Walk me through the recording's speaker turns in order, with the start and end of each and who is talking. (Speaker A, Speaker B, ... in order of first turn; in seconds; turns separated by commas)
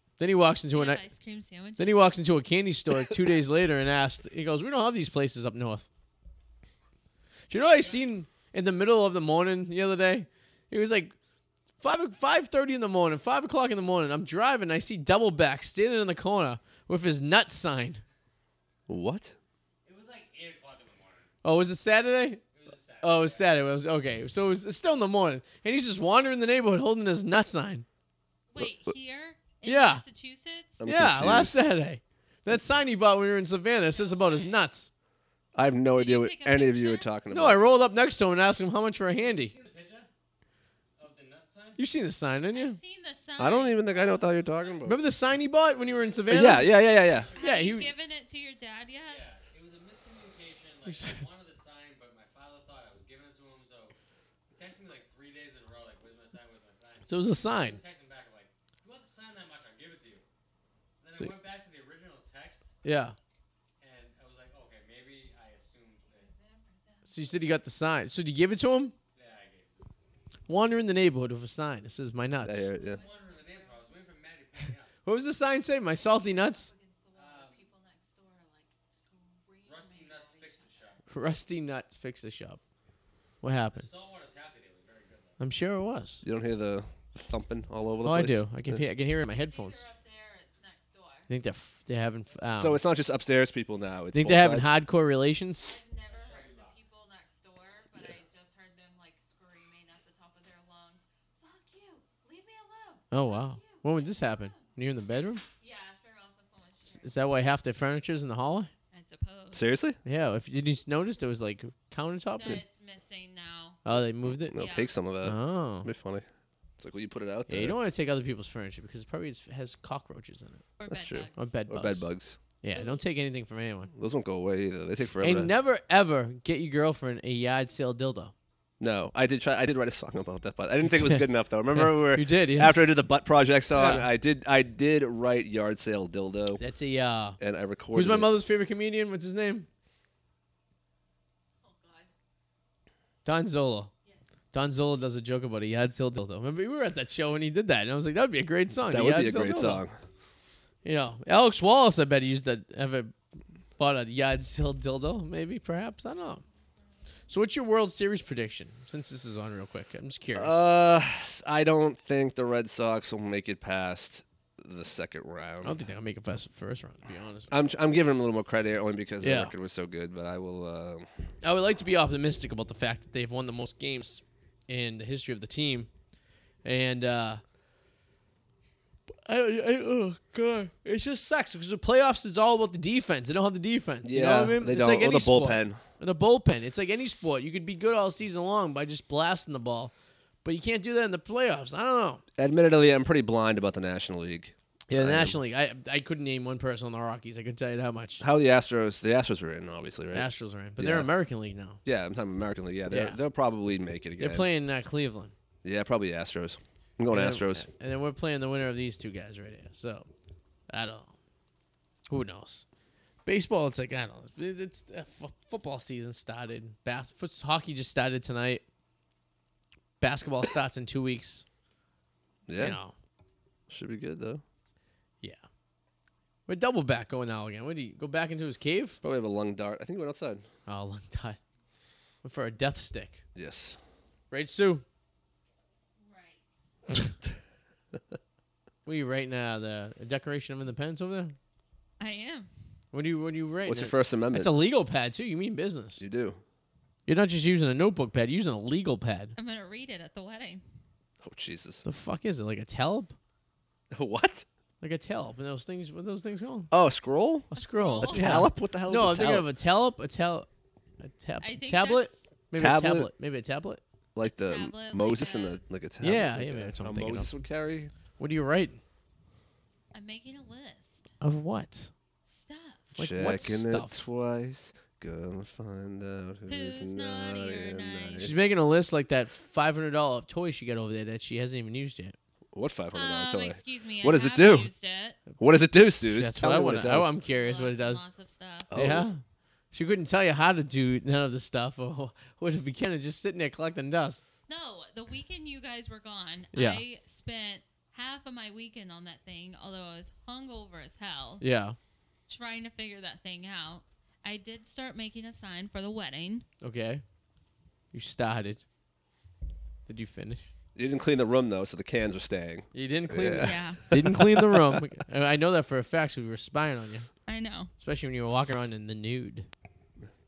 Speaker A: 0.2-1.0, Speaker B: 0.7-2.0, Speaker A: 1.8-5.9, Speaker A: 7.5-11.1, Speaker C: 7.6-8.0, Speaker A: 11.8-18.0, Speaker D: 18.9-19.3, Speaker C: 19.8-21.3, Speaker A: 21.4-22.4, Speaker C: 22.5-23.5, Speaker A: 23.0-27.9, Speaker B: 28.5-30.8, Speaker D: 28.6-28.9, Speaker A: 29.6-30.0, Speaker D: 30.8-31.6, Speaker A: 30.8-34.9, Speaker B: 33.9-34.6, Speaker D: 35.5-37.6, Speaker B: 35.9-37.1, Speaker A: 37.3-39.5, Speaker C: 39.2-40.1, Speaker C: 41.0-41.8, Speaker A: 41.8-42.8, Speaker B: 42.5-44.9, Speaker D: 43.4-45.0, Speaker A: 44.9-46.8, Speaker C: 45.7-47.6, Speaker D: 46.3-47.3, Speaker B: 47.3-49.2, Speaker A: 47.4-47.9, Speaker C: 49.0-53.9, Speaker A: 50.9-51.2, Speaker C: 54.5-60.2, Speaker A: 57.1-57.8, Speaker C: 61.0-62.7, Speaker A: 62.8-63.1, Speaker C: 63.8-66.3, Speaker B: 66.1-67.4, Speaker A: 67.0-68.9, Speaker C: 69.1-69.9, Speaker A: 70.5-72.7, Speaker D: 72.4-73.0, Speaker B: 72.7-73.9, Speaker C: 72.9-74.9, Speaker A: 75.0-76.7, Speaker B: 75.9-80.7, Speaker C: 77.1-77.6, Speaker C: 79.7-81.4, Speaker A: 81.1-82.6, Speaker A: 83.4-83.9, Speaker C: 83.7-85.4, Speaker A: 85.4-86.2, Speaker D: 86.2-88.8, Speaker A: 88.0-89.9, Speaker B: 89.4-91.3, Speaker A: 91.3-92.8, Speaker D: 92.5-94.7, Speaker A: 94.1-95.8, Speaker B: 95.6-104.7, Speaker C: 96.0-96.8, Speaker A: 103.1-105.4, Speaker B: 105.6-107.3, Speaker A: 106.9-108.7, Speaker B: 108.9-109.7, Speaker D: 109.5-110.0, Speaker A: 110.0-112.6, Speaker B: 112.3-113.8, Speaker A: 113.8-114.6, Speaker D: 114.3-116.2, Speaker B: 114.5-114.9, Speaker A: 115.2-115.9, Speaker D: 116.8-117.8, Speaker A: 117.5-120.6, Speaker B: 120.8-121.5, Speaker D: 120.9-122.4, Speaker A: 121.4-122.1, Speaker A: 122.6-123.9, Speaker B: 122.7-123.0, Speaker D: 123.9-125.5, Speaker A: 125.2-128.3, Speaker D: 128.8-136.6, Speaker A: 131.7-132.9, Speaker A: 133.7-134.1, Speaker A: 136.6-137.4, Speaker D: 137.4-138.3, Speaker A: 137.9-139.7, Speaker B: 141.6-142.1, Speaker A: 143.2-143.9, Speaker A: 144.5-149.8, Speaker D: 148.9-150.0, Speaker A: 150.8-153.1, Speaker A: 153.8-156.4, Speaker A: 157.3-160.6, Speaker D: 160.3-165.8, Speaker A: 165.6-167.5, Speaker D: 167.5-171.1, Speaker A: 169.2-169.5, Speaker A: 171.4-175.9, Speaker A: 176.6-177.4, Speaker A: 179.2-189.9, Speaker D: 184.0-185.8, Speaker A: 190.4-192.2, Speaker D: 192.4-195.4, Speaker A: 194.9-198.2, Speaker D: 198.2-201.1, Speaker A: 200.1-201.8, Speaker D: 201.8-204.5, Speaker A: 202.9-203.2, Speaker A: 204.2-205.3, Speaker D: 205.6-207.7, Speaker A: 207.1-210.1, Speaker A: 210.7-211.1, Speaker A: 212.1-212.6, Speaker A: 213.2-218.6, Speaker A: 220.0-221.4, Speaker D: 222.5-222.8, Speaker A: 222.6-222.9, Speaker D: 223.7-224.4, Speaker A: 226.5-229.0, Speaker D: 229.0-230.4, Speaker A: 230.7-231.4, Speaker A: 232.2-233.2, Speaker D: 233.3-233.8, Speaker A: 234.3-234.8, Speaker B: 236.0-236.5, Speaker A: 238.8-241.3, Speaker B: 242.0-242.5, Speaker A: 242.9-246.0, Speaker D: 243.6-244.5, Speaker D: 246.0-246.4, Speaker A: 247.1-249.3, Speaker B: 249.3-250.6, Speaker D: 251.2-251.8, Speaker A: 251.8-253.1, Speaker D: 253.9-254.4, Speaker A: 254.8-256.7, Speaker D: 256.7-257.5, Speaker A: 257.5-260.5, Speaker B: 257.5-258.4, Speaker D: 258.0-259.5, Speaker A: 261.0-263.8, Speaker B: 261.4-262.3, Speaker D: 262.6-263.1, Speaker D: 264.1-267.9, Speaker B: 264.2-265.6, Speaker A: 266.0-267.3, Speaker A: 268.2-268.8, Speaker B: 269.9-271.1, Speaker A: 271.2-271.9, Speaker B: 272.3-273.0, Speaker A: 273.0-274.0, Speaker D: 273.0-278.5, Speaker B: 276.5-278.4, Speaker A: 278.2-282.1, Speaker D: 282.5-284.7, Speaker B: 282.9-285.2, Speaker D: 285.4-287.1, Speaker A: 286.0-288.1, Speaker B: 287.2-288.7, Speaker D: 288.7-289.1, Speaker A: 288.7-294.2, Speaker B: 294.5-301.4, Speaker A: 296.5-296.8, Speaker A: 301.4-301.8, Speaker B: 302.3-306.4, Speaker A: 306.6-307.0, Speaker A: 307.9-308.6, Speaker A: 309.9-310.5, Speaker D: 310.8-314.8, Speaker A: 312.7-317.1, Speaker B: 313.4-313.9, Speaker B: 317.2-317.7, Speaker A: 317.8-319.5